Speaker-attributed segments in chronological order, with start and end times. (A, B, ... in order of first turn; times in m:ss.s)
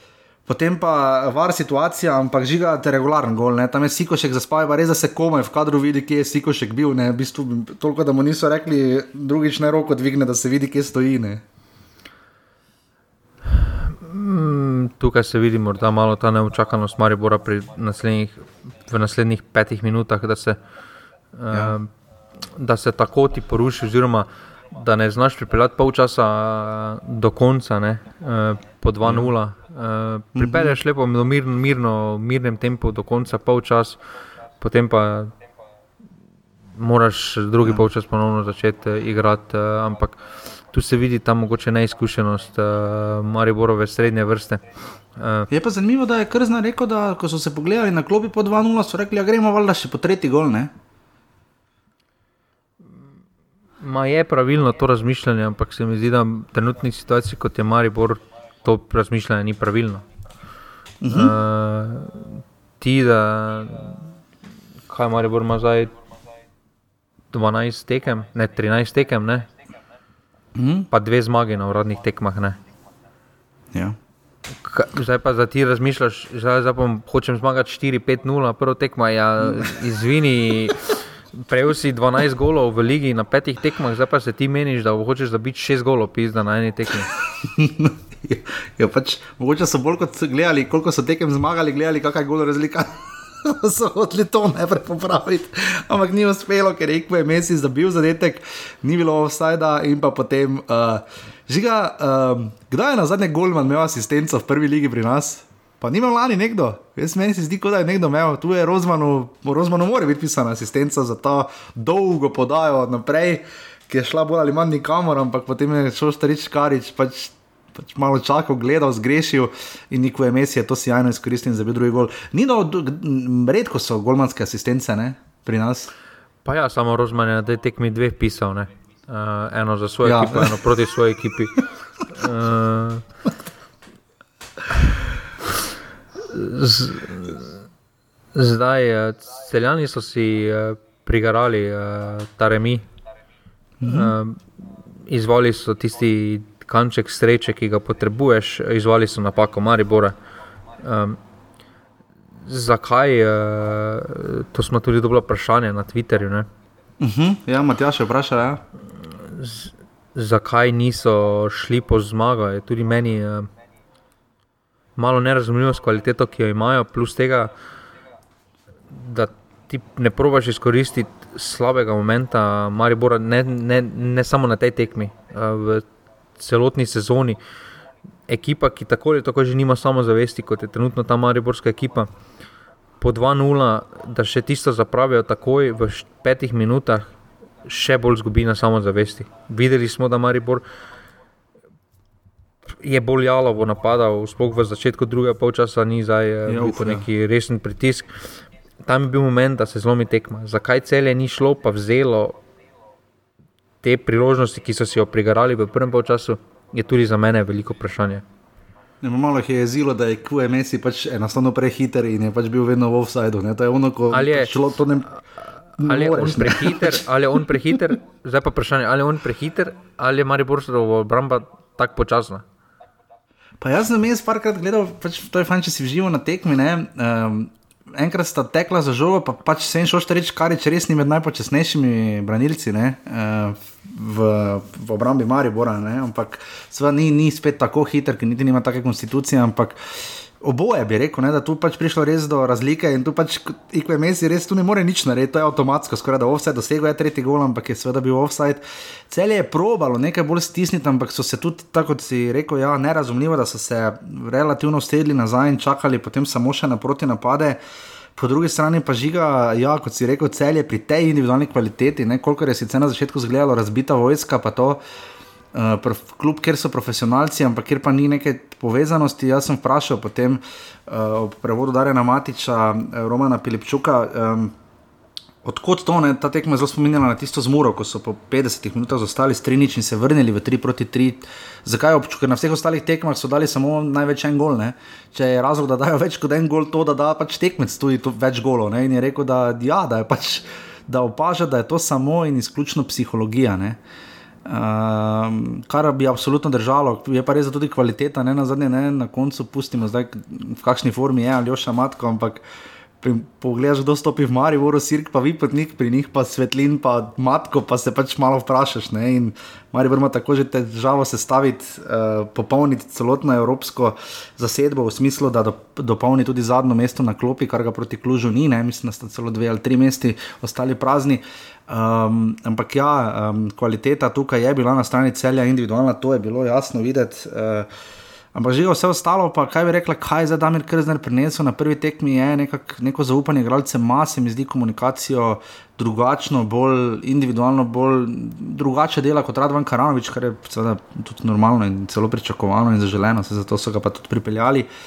0:00.5-0:11.4 A
0:13.5-0:20.6 B
0:21.4-0:21.9 B
0:21.5-0:21.8 A
0:22.5-0:34.0 B
0:29.0-0:29.3 A
0:30.4-0:30.8 A
0:34.6-0:35.3 B
0:36.8-0:44.6 B
0:45.2-0:45.5 B
0:45.5-0:50.7 A
0:53.8-1:00.0 B
1:01.0-1:01.4 A
1:01.1-1:04.1 B
1:04.9-1:05.9 B
1:07.3-1:09.5 B
1:10.6-1:10.9 A
1:10.9-1:12.6 B
1:14.6-1:27.1 B
1:27.4-2:05.9 A
2:06.4-2:13.0 B
2:10.0-2:10.6 A
2:16.2-2:17.6 B
2:18.3-2:22.8 B
2:23.8-2:24.2 A
2:23.9-2:24.5 B
2:25.1-2:30.2 B
2:30.8-2:31.2 B
2:32.4-2:36.5 B
2:37.0-2:38.6 A
2:39.1-2:43.5 B
2:45.0-2:47.5 B
2:48.9-2:55.9 B
2:56.4-2:57.4 B
2:58.3-3:02.1 B
3:03.0-3:07.1 B
3:07.6-3:10.6 B
3:12.8-3:18.2 B
3:16.5-3:17.1 A
3:18.8-3:22.4 B
3:23.8-3:28.2 B
3:29.0-3:35.1 A
3:34.1-3:34.6 B
3:35.8-3:37.8 A
3:35.8-3:42.4 B
3:43.6-4:17.6 A
4:18.2-4:24.8 A
4:25.5-4:34.6 A
4:35.4-4:53.8 A
4:54.4-5:02.4 A
5:03.0-5:27.7 A
5:28.4-5:44.7 A